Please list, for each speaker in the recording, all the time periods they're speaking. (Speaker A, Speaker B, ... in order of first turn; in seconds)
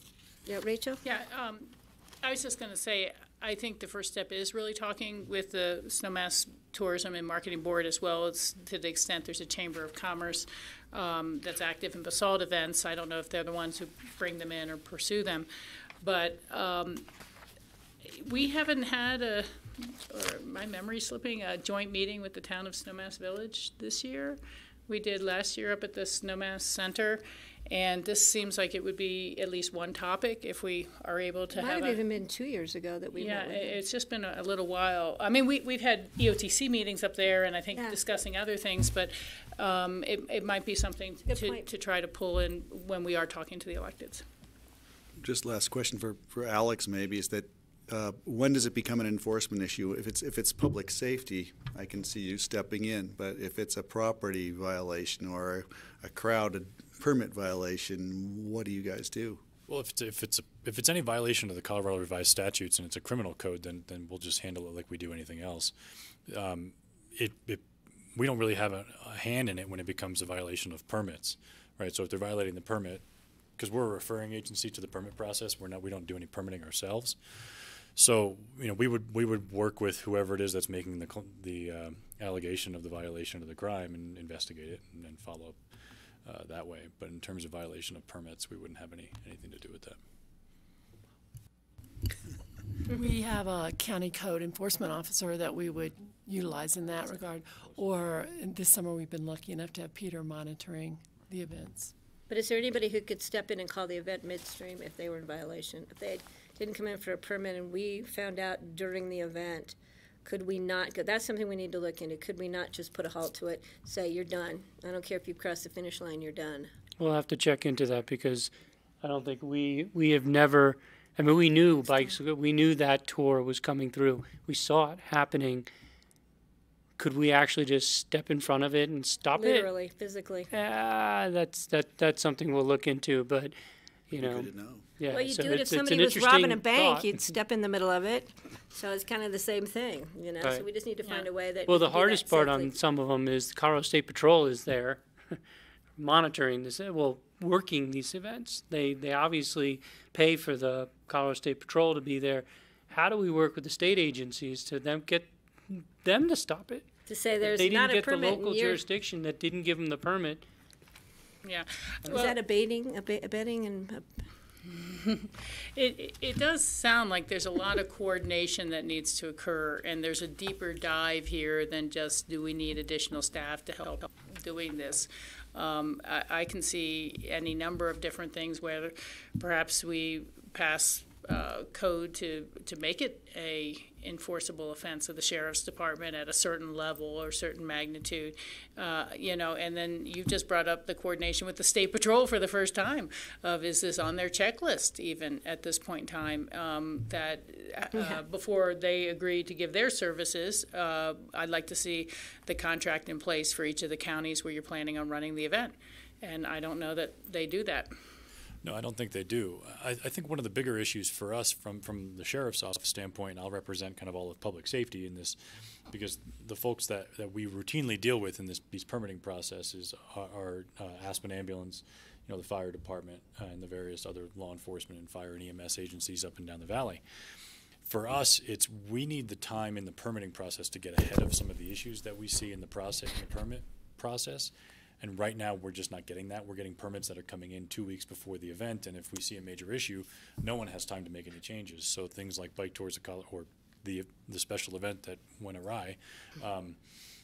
Speaker A: 0.5-1.0, 31.5-33.8, 41.3-41.6, 102.3-116.7, 129.4-130.5, 135.1-142.7, 157.1-158.8, 162.1-164.0, 197.9-198.2
Speaker B: 1.0-15.5, 16.0-17.1, 18.0-32.0, 33.1-44.2, 161.4-162.3, 164.7-207.9
Speaker C: 45.2-59.4, 134.2-134.8
Speaker D: 59.7-65.7, 66.2-73.0, 73.6-85.6, 86.2-90.0, 208.6-227.0, 227.8-246.8
Speaker E: 92.9-101.9
Speaker F: 117.0-118.5, 119.0-125.7, 127.0-129.7, 130.5-133.5, 134.1-137.2, 141.7-145.4, 146.0-156.9, 157.4-160.4